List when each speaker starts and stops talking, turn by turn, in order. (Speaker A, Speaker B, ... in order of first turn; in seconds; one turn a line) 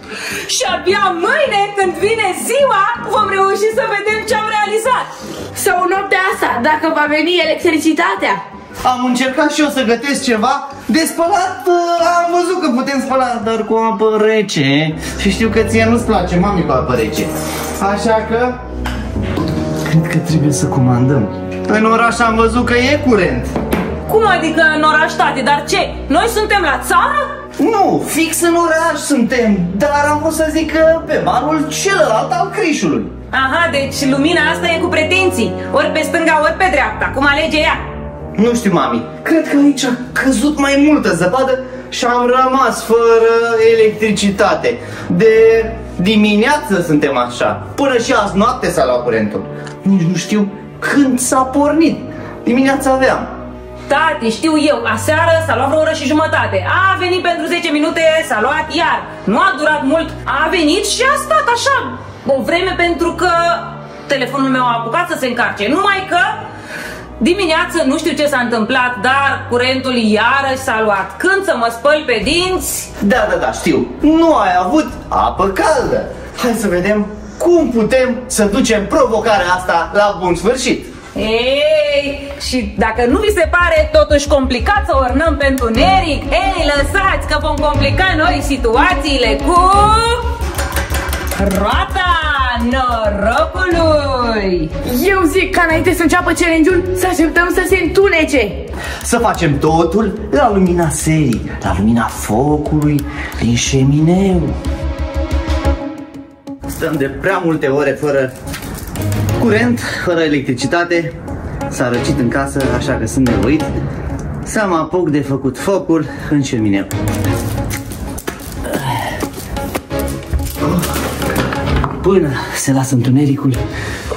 Speaker A: 0.5-5.1
Speaker B: 5.5-8.4
Speaker C: 8.8-18.6
Speaker C: 19.9-23.5
Speaker A: 24.1-27.3
Speaker C: 27.6-33.1
Speaker A: 33.3-37.8
Speaker C: 38.4-53.3
Speaker A: 53.9-66.4
Speaker A: 67.2-72.9
Speaker C: 73.0-80.9
Speaker A: 81.2-90.2
Speaker A: 91.4-94.7
Speaker B: 94.8-98.6
Speaker C: 99.0-104.6
Speaker C: 106.7-108.3
Speaker C: 109.4-111.2
Speaker C: 111.7-113.7
Speaker C: 114.5-116.9
Speaker C: 118.7-119.1
Speaker C: 120.6-120.9
Speaker C: 122.0-123.6